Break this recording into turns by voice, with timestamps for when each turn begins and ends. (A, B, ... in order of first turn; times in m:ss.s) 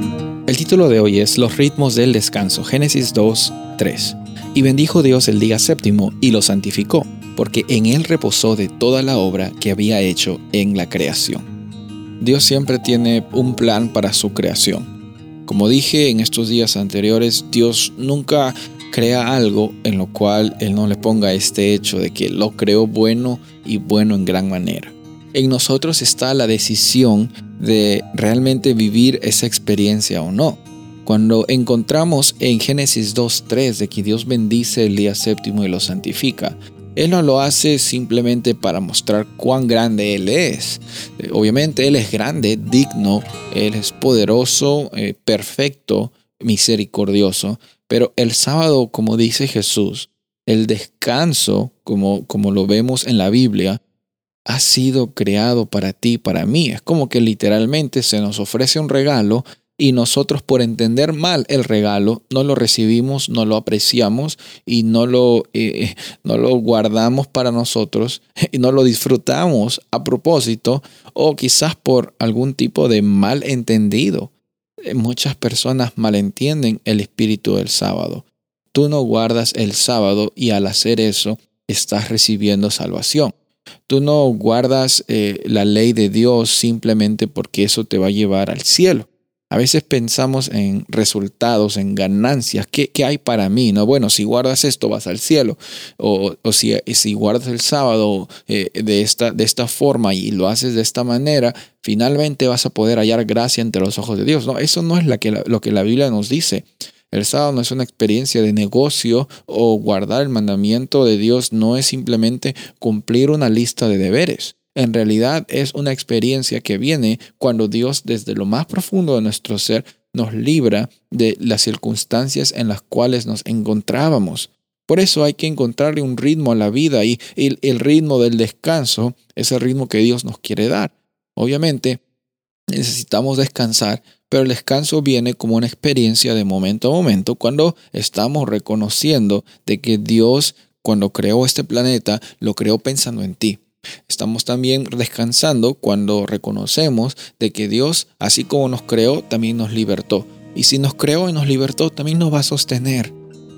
0:00.5-0:11.5 A
0:12.2-0:14.9 A
0:15.5-0:53.8 A
0:54.5-1:14.3 A
1:14.9-1:23.4 A
1:23.9-2:12.0 A
2:12.7-2:33.1 A